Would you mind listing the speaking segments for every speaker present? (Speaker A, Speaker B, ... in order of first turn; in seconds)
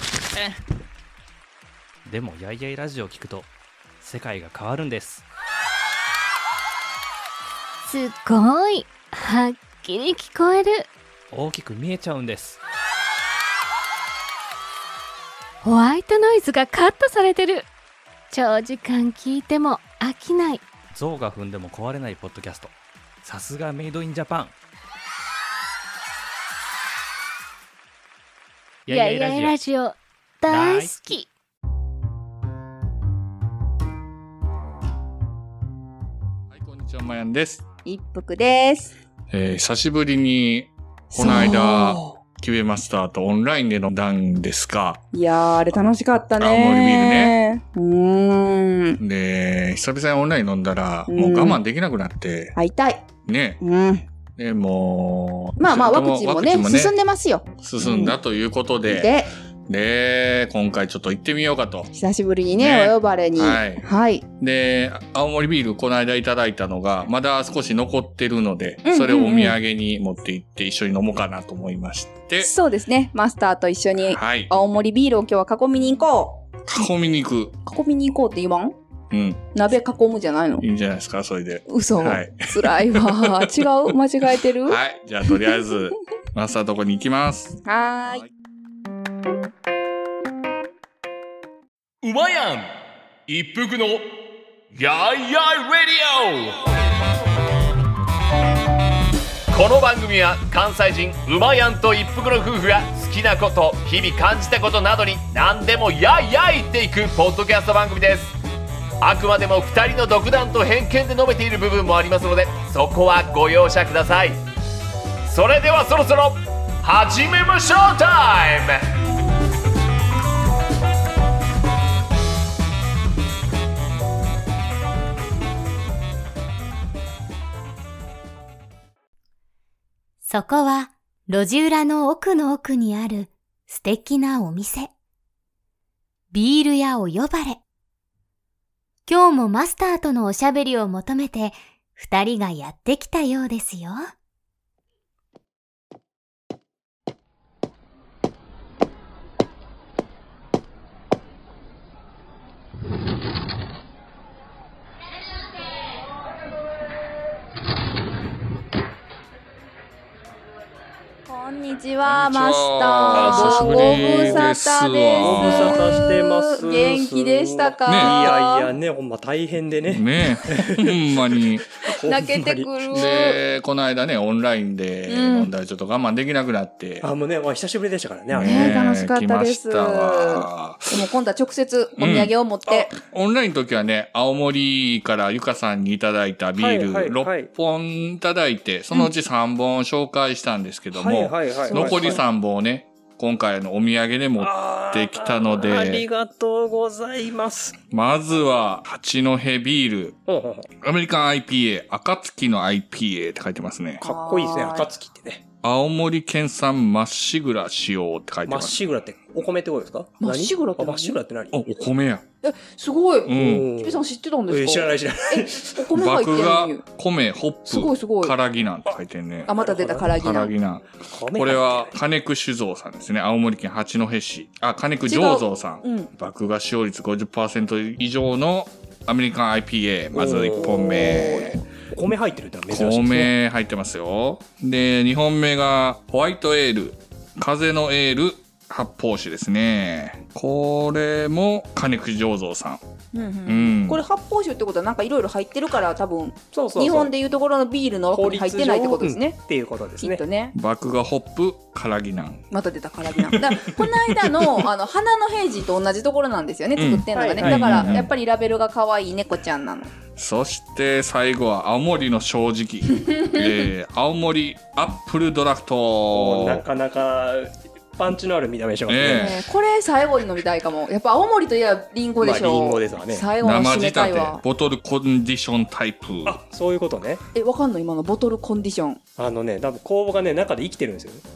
Speaker A: 0.3-0.6, 2.0-5.3, 11.3-12.6, 20.9-24.6, 28.9-29.6, 30.5-31.0
Speaker B: 7.8-10.9, 15.6-17.7, 18.3-20.6, 28.9-31.3
Speaker C: 36.5-37.6, 39.3-45.0, 46.4-47.4, 49.0-52.6, 53.3-53.6, 54.4-57.0, 57.6-59.1, 59.7-61.9, 62.5-63.9, 64.4-72.5, 74.1-74.5, 76.6-77.5, 79.1-79.4, 80.6-83.7, 84.6-88.3, 162.0-165.8, 167.9-168.3, 169.9-171.7, 172.9-177.1, 178.3-181.0, 182.0-182.3, 182.9-196.1, 197.9-200.2, 200.8-204.0, 205.6-208.9, 211.5-212.2, 213.2-213.7, 215.9-219.5, 220.1-231.6, 232.7-242.8, 243.5-244.0, 250.6-252.4, 253.2-254.3, 256.8-258.1, 260.2-266.6, 268.9-269.4, 273.4-276.4
Speaker D: 37.8-39.0, 41.1-42.1, 45.1-49.0, 51.1-51.6, 52.5-53.0, 53.6-54.1, 55.6-58.1, 58.9-59.3, 61.9-64.2, 68.8-69.6, 72.4-76.4, 77.7-78.8, 79.5-80.6, 81.7-84.8, 85.3-85.7, 87.6-88.3, 161.3-168.7, 171.9-173.4, 175.1-175.5, 178.4-182.9, 191.7-192.2, 204.0-204.9, 210.2-211.2, 212.4-216.8, 217.7-218.3, 219.5-220.5, 225.1-226.1, 230.8-231.6, 243.1-249.4, 250.0-250.5, 252.5-259.9, 263.1-263.4, 269.1-274.4, 277.3-279.0
Speaker E: 92.0-92.7, 93.3-94.1, 94.7-96.8, 99.5-108.3, 109.0-114.4, 115.2-118.8
Speaker F: 130.2-134.9, 136.3-137.6, 139.1-144.1
Speaker G: 163.1-164.5, 165.2-171.0, 171.8-172.7, 177.0-178.8, 186.6-187.5, 190.9-192.2, 194.4-197.8, 200.3-200.7, 204.0-205.4, 208.5-211.6, 213.3-215.8, 219.6-220.1, 221.1-222.0, 230.1-233.3, 246.5-247.1, 248.1-250.2, 257.1-258.0, 266.1-269.4, 272.2-273.2, 276.2-277.2, 279.2-281.2